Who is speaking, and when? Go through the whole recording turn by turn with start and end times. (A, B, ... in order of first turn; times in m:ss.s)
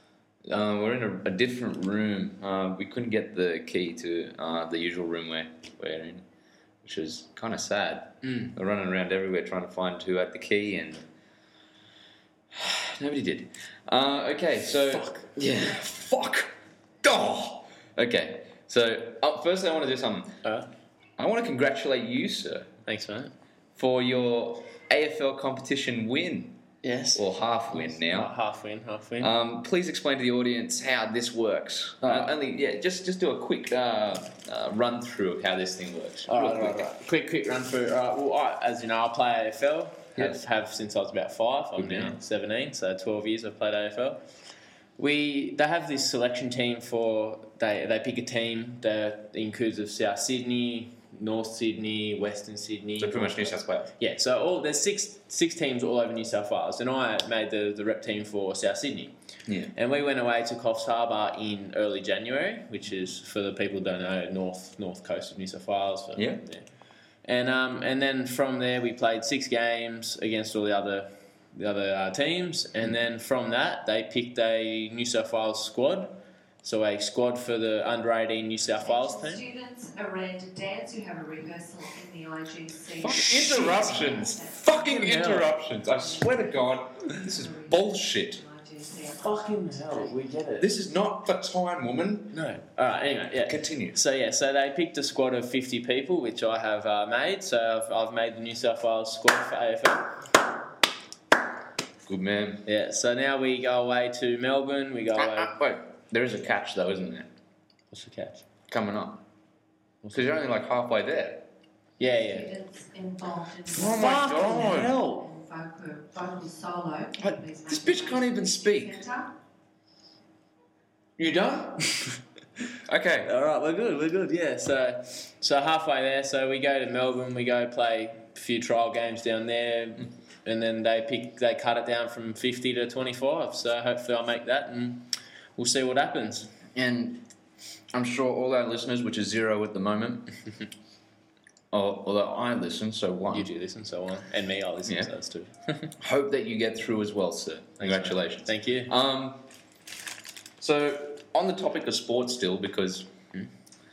0:00.4-0:06.2 A
0:06.8-0:11.0 A
0:08.2-0:08.5 B
0:12.5-0:20.4 A
0:14.8-0:15.3 B
0:21.2-0:22.7 A
0:22.8-0:23.3 B
0:23.8-0:26.6 A
0:26.8-0:29.3 B
0:27.1-0:28.3 A
0:29.2-0:36.9 A
0:32.0-0:32.3 B
0:36.3-0:44.2 B
0:40.2-0:40.4 A
0:41.8-0:42.2 A
0:45.0-0:59.1 B
0:53.0-0:53.9 A
0:59.5-0:59.7 A
0:59.7-1:06.7 B
1:06.2-1:06.4 A
1:07.2-1:19.4 B
1:18.8-1:30.2 C
1:23.0-1:28.4 A
1:23.1-1:23.8 B
1:24.8-1:25.5 B
1:29.2-1:30.7 B
1:30.6-1:32.3 A
1:32.3-1:40.2 B
1:33.4-1:34.0 A
1:42.0-1:42.6 A
1:42.6-1:45.5 B
1:45.2-1:47.3 A
1:47.9-1:48.4 B
1:48.7-1:49.2 A
1:50.1-1:51.4 A
1:52.0-1:52.5 B
1:52.2-1:59.3 C
1:53.7-1:55.0 A
1:53.8-1:55.2 B
1:57.2-1:59.0 A
2:01.2-2:01.9 A
2:02.9-2:03.3 A
2:03.2-2:16.5 B
2:16.7-2:17.2 A
2:17.9-2:20.3 A
2:21.7-2:23.5 A
2:23.3-2:25.9 B
2:24.8-2:25.1 A
2:26.0-2:29.4 A
2:27.8-2:28.9 B
2:30.6-2:33.1 A